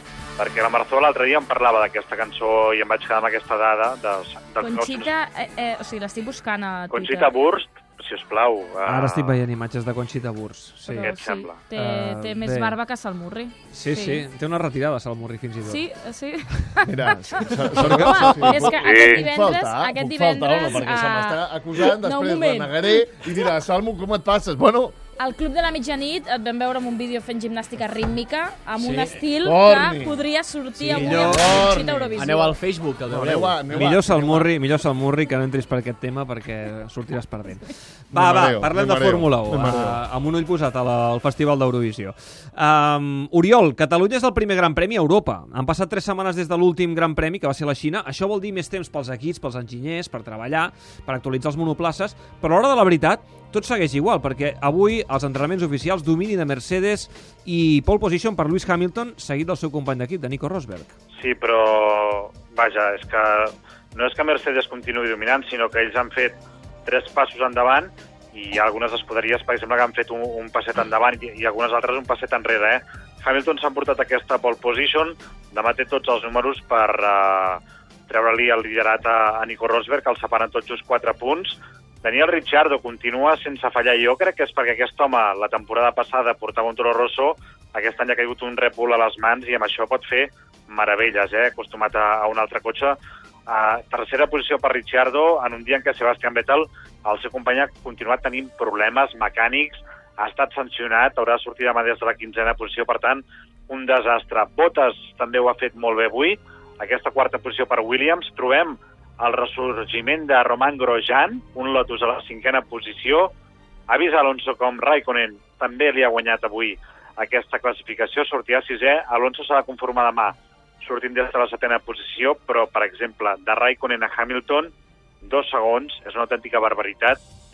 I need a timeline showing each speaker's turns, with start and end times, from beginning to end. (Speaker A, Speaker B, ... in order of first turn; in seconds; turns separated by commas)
Speaker A: 0.4-5.1, Speaker B: 4.6-7.3, Speaker A: 6.9-9.4, Speaker C: 8.8-11.1, Speaker B: 10.8-14.2, Speaker A: 11.0-11.7, Speaker C: 11.7-12.7, Speaker C: 13.7-15.8, Speaker B: 15.6-23.0, Speaker D: 16.8-24.9, Speaker C: 17.8-18.4, Speaker A: 18.7-19.2, Speaker B: 25.2-32.5, Speaker E: 28.8-29.1, Speaker D: 29.4-30.2, Speaker E: 30.7-31.5, Speaker D: 30.9-32.4, Speaker E: 32.1-34.3, Speaker D: 33.1-34.5, Speaker C: 33.7-61.0, Speaker D: 38.1-40.0, Speaker A: 61.1-113.3, Speaker A: 113.9-124.7, Speaker A: 125.2-127.2